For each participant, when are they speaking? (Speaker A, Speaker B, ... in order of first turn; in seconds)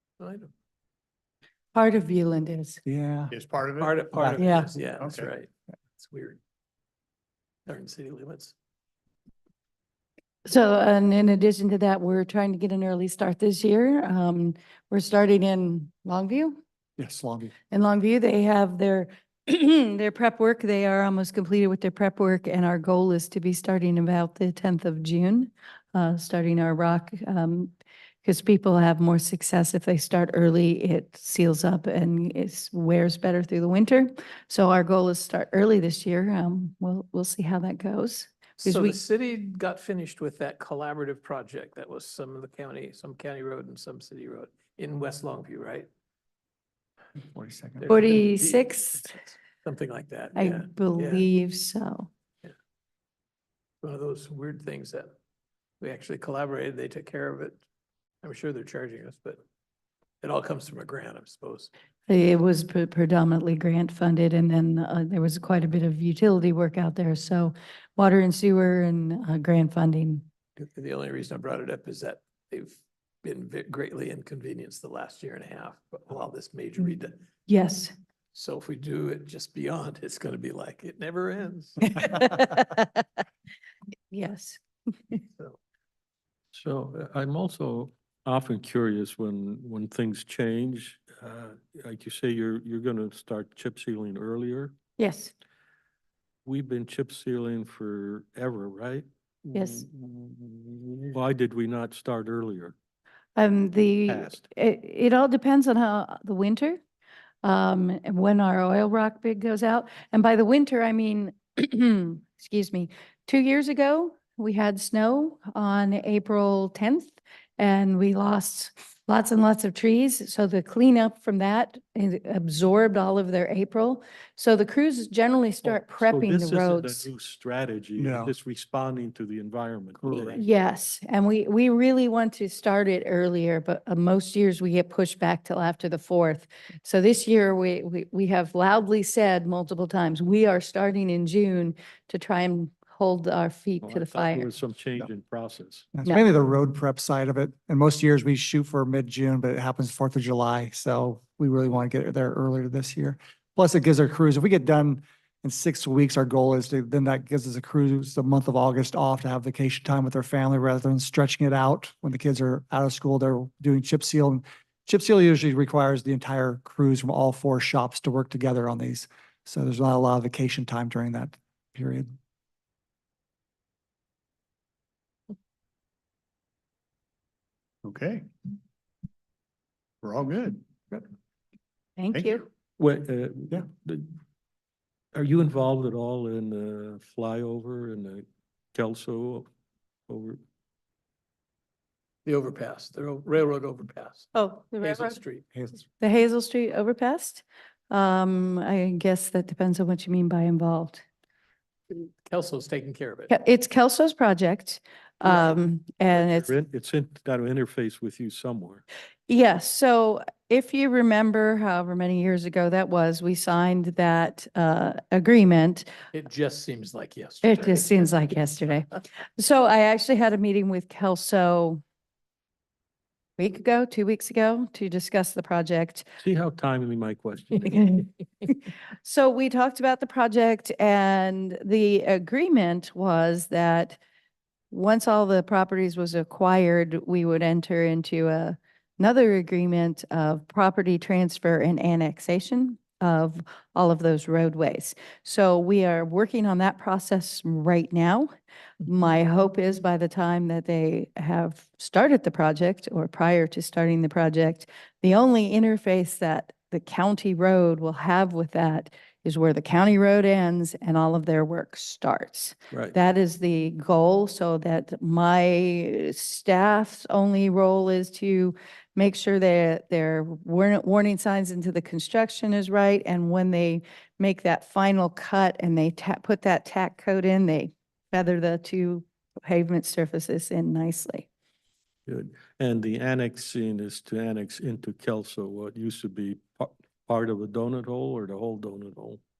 Speaker A: 0.2-0.5, 3.8-6.4, 7.7-8.5, 38.6-45.9, 47.8-51.3, 53.8-55.1, 55.8-57.6, 58.2-59.4, 60.2-61.7, 70.6-77.2, 78.3-82.0, 192.2-195.4, 201.9-203.3, 205.2-205.6, 216.1-218.3
Speaker B: 1.7-2.8, 4.4-4.7, 10.4-16.6, 17.7-27.7, 28.2-39.0, 47.9-49.0, 50.4-52.1, 62.1-70.2, 77.5-77.9, 82.0-83.0, 84.1-84.6, 95.0-95.3, 99.5-99.8, 103.3-106.8, 107.4-127.0, 130.3-144.5, 182.0-182.4, 194.3-195.2, 196.0-201.0, 203.3-206.5, 209.3-215.9, 217.4-221.8, 223.4-226.1, 227.7-228.5, 229.0-234.0, 234.7-248.3, 248.8-281.3
Speaker C: 2.9-3.3, 4.2-4.4, 17.0-17.5, 47.3-47.9, 128.0-128.3, 130.0-130.3, 145.9-172.1, 195.5-195.8
Speaker D: 3.3-4.3, 5.0-5.3, 177.8-178.2, 180.0-180.6, 182.1-182.4
Speaker E: 86.5-94.7, 96.4-102.7, 104.1-104.4, 125.6-130.4, 143.8-145.9, 182.8-184.1, 185.1-189.5, 190.1-190.4, 206.2-208.8, 226.2-228.0, 282.1-289.2